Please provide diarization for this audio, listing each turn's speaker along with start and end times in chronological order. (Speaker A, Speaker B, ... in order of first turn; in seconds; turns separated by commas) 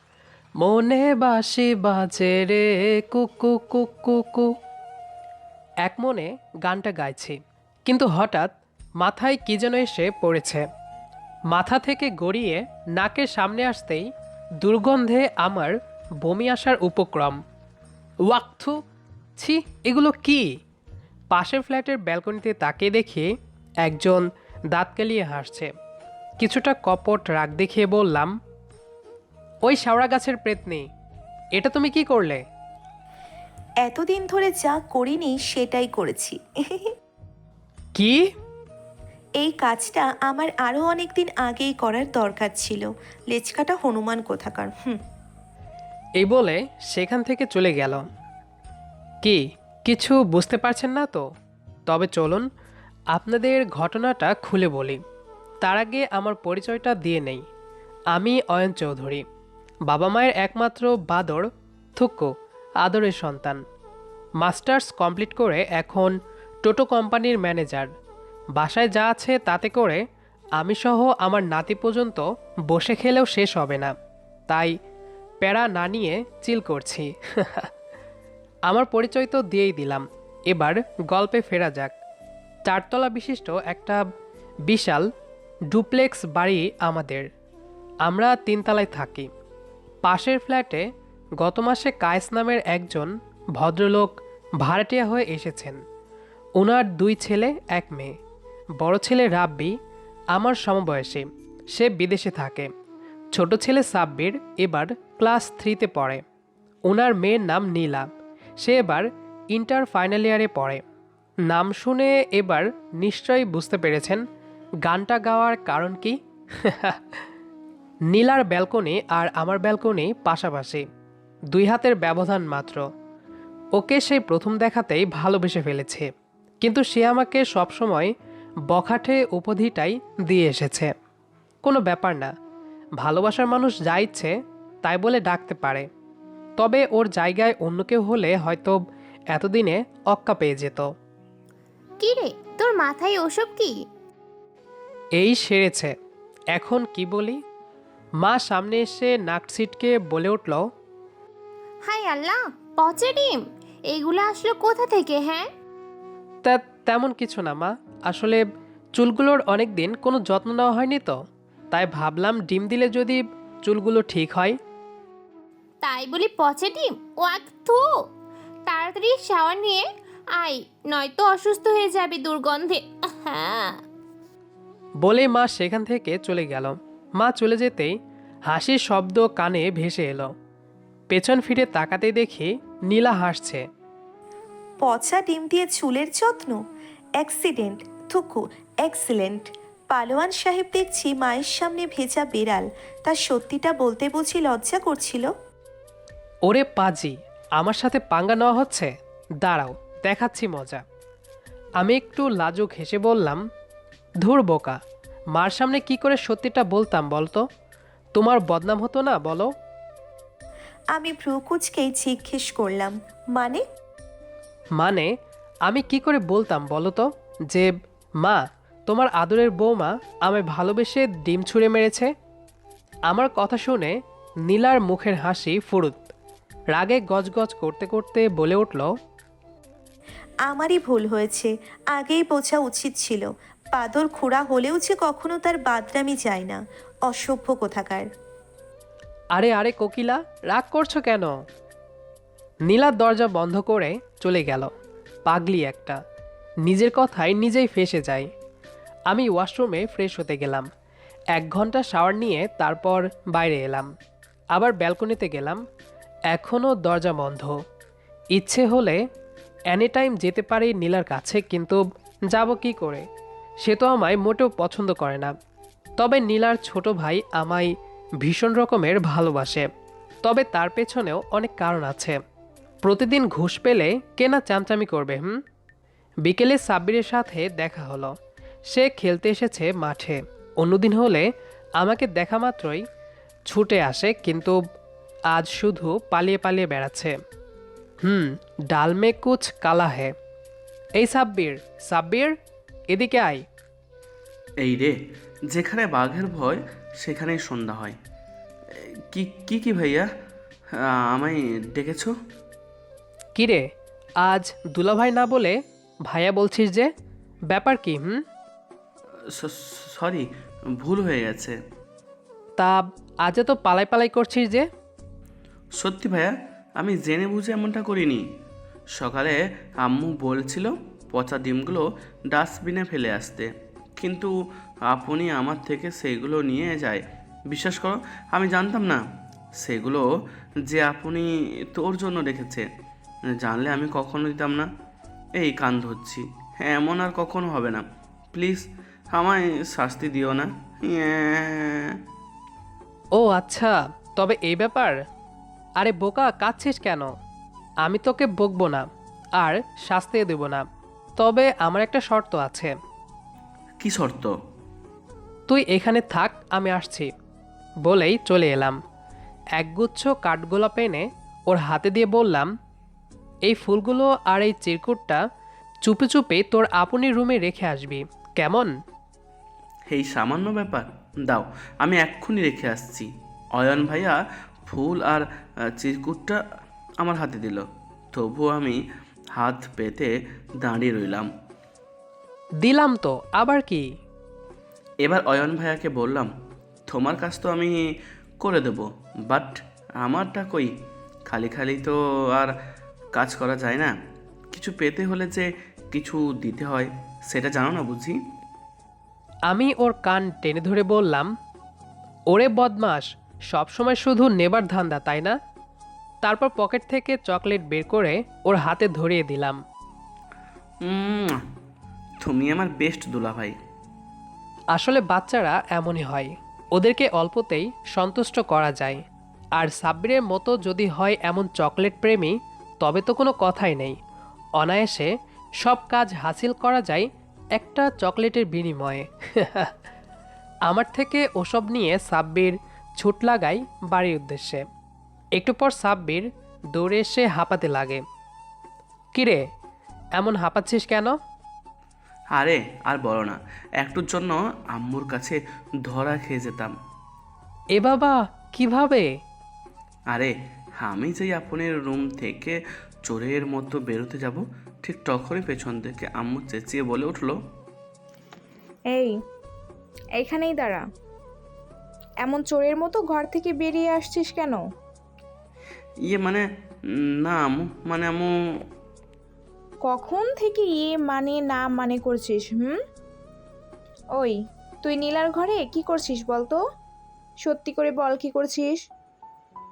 Speaker A: 0.6-4.5, Speaker A: 5.8-10.7, Speaker A: 11.5-14.1, Speaker A: 14.6-17.4, Speaker A: 18.3-18.8, Speaker A: 19.4-20.5, Speaker A: 21.3-23.3, Speaker A: 23.8-25.7, Speaker A: 26.4-28.4, Speaker A: 29.6-30.9, Speaker A: 31.6-32.4, Speaker B: 33.8-36.9, Speaker A: 38.0-38.3, Speaker B: 39.4-45.0, Speaker A: 46.2-48.0, Speaker A: 49.2-51.2, Speaker A: 51.9-52.5, Speaker A: 53.1-55.0, Speaker A: 55.6-57.4, Speaker A: 58.1-59.2, Speaker A: 59.9-63.6, Speaker A: 64.4-67.9, Speaker A: 68.6-70.0, Speaker A: 70.6-73.9, Speaker A: 74.5-74.8, Speaker A: 75.4-77.7, Speaker A: 78.7-81.9, Speaker A: 82.7-84.0, Speaker A: 84.7-85.1, Speaker A: 85.7-87.3, Speaker A: 88.0-89.3, Speaker A: 90.0-90.9, Speaker A: 91.4-95.8, Speaker A: 96.6-98.2, Speaker A: 98.8-99.8, Speaker A: 100.3-102.7, Speaker A: 103.3-106.2, Speaker A: 106.9-110.8, Speaker A: 111.5-114.2, Speaker A: 114.8-117.2, Speaker A: 118.1-120.8, Speaker A: 121.5-122.9, Speaker A: 123.8-126.1, Speaker A: 126.6-128.1, Speaker A: 128.7-130.9, Speaker A: 131.6-132.3, Speaker A: 133.0-135.9, Speaker A: 136.6-138.8, Speaker A: 139.3-140.9, Speaker C: 142.0-143.8, Speaker A: 145.2-145.9, Speaker A: 146.5-147.4, Speaker A: 148.2-150.7, Speaker C: 151.8-155.5, Speaker A: 156.4-158.4, Speaker A: 159.0-164.6, Speaker C: 165.8-167.9, Speaker C: 168.7-173.8, Speaker A: 175.0-177.9, Speaker A: 178.5-180.3, Speaker A: 181.1-183.7, Speaker B: 184.8-186.6, Speaker B: 187.2-195.3, Speaker A: 196.5-200.8, Speaker A: 201.8-203.4, Speaker A: 204.2-204.8, Speaker A: 205.3-207.4, Speaker A: 208.2-209.5, Speaker B: 210.9-213.6, Speaker A: 214.8-215.1, Speaker A: 215.7-217.7, Speaker A: 218.2-222.1, Speaker A: 223.1-223.9, Speaker A: 224.5-226.1, Speaker A: 226.7-228.9, Speaker B: 230.5-238.1, Speaker A: 239.3-241.3, Speaker A: 242.7-244.7, Speaker A: 245.2-246.0, Speaker A: 246.7-248.3, Speaker A: 249.1-250.7, Speaker A: 251.3-253.9, Speaker A: 254.5-255.6, Speaker A: 256.3-257.6, Speaker A: 258.4-259.0, Speaker A: 259.7-263.0, Speaker A: 263.6-265.3, Speaker A: 266.0-269.7, Speaker A: 270.2-272.2, Speaker A: 272.8-275.4, Speaker A: 276.2-278.1, Speaker A: 278.7-282.8, Speaker A: 283.5-284.6, Speaker A: 285.3-287.2, Speaker A: 288.0-290.1, Speaker A: 291.0-292.3, Speaker A: 292.9-293.4, Speaker D: 294.6-298.0, Speaker D: 298.7-300.1, Speaker D: 300.8-302.1, Speaker A: 303.4-303.7, Speaker A: 304.2-306.9, Speaker A: 307.5-308.2, Speaker D: 309.3-311.6, Speaker A: 312.6-314.6, Speaker D: 315.8-318.2, Speaker D: 319.0-324.3, Speaker D: 324.9-329.0, Speaker D: 329.6-330.1, Speaker D: 330.7-332.6, Speaker D: 333.4-334.7, Speaker D: 335.4-342.0, Speaker A: 343.2-345.0, Speaker A: 345.8-347.1, Speaker A: 347.8-350.6, Speaker A: 351.2-352.7, Speaker D: 353.8-354.3, Speaker A: 355.5-357.1, Speaker A: 357.9-358.8, Speaker A: 359.6-362.5, Speaker A: 363.4-365.2, Speaker A: 365.9-368.7, Speaker D: 369.9-376.4, Speaker D: 377.0-378.8, Speaker D: 379.3-381.3, Speaker A: 382.6-383.9, Speaker D: 385.0-386.3, Speaker D: 386.9-387.9, Speaker D: 388.4-390.7, Speaker D: 391.3-392.5, Speaker D: 393.1-393.9, Speaker D: 394.5-398.2, Speaker A: 399.5-401.3, Speaker A: 402.3-405.4, Speaker A: 406.2-409.6, Speaker D: 410.8-411.5, Speaker D: 412.2-413.6, Speaker A: 414.7-419.0, Speaker A: 419.6-424.0, Speaker A: 424.6-429.7, Speaker A: 430.7-434.6, Speaker A: 435.4-438.0, Speaker A: 439.1-439.4, Speaker A: 440.2-441.1, Speaker D: 442.3-446.7, Speaker A: 447.8-449.1, Speaker D: 450.1-457.4, Speaker E: 458.9-459.1, Speaker E: 460.2-460.8, Speaker E: 462.2-464.6, Speaker D: 466.1-468.3, Speaker E: 469.9-472.8, Speaker E: 474.2-476.6, Speaker E: 477.4-478.8